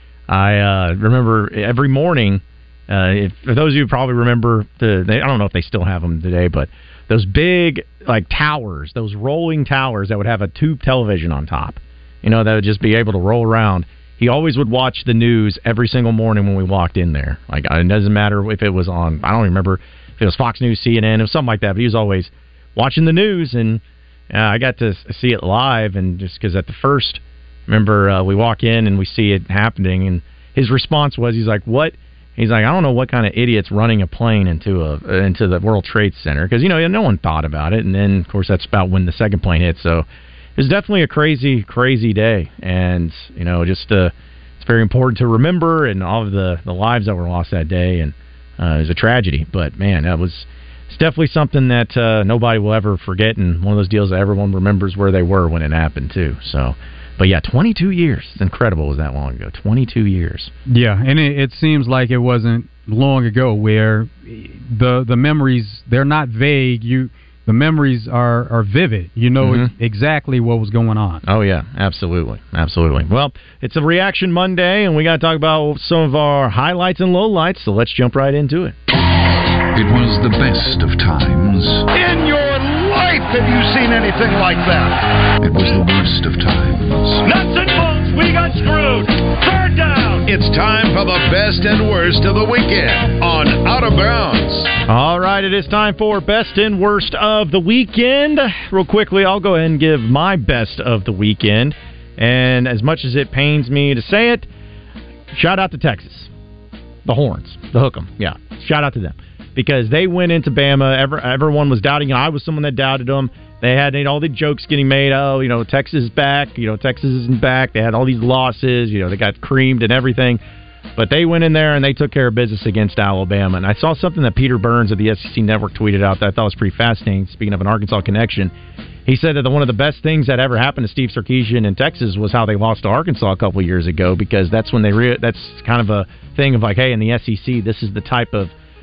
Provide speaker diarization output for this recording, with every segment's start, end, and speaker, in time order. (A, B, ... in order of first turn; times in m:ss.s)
0:00.3-1:00.5 A
1:00.7-1:11.2 B
1:09.4-1:09.7 A
1:11.2-1:18.8 A
1:19.7-1:21.9 C
1:21.9-1:25.0 D
1:25.4-1:27.2 C
1:27.2-1:30.2 D
1:30.3-1:34.7 E
1:34.9-1:44.5 A
1:45.3-1:46.3 A
1:47.0-2:00.4 A
2:01.0-2:08.5 A
2:09.1-2:18.5 A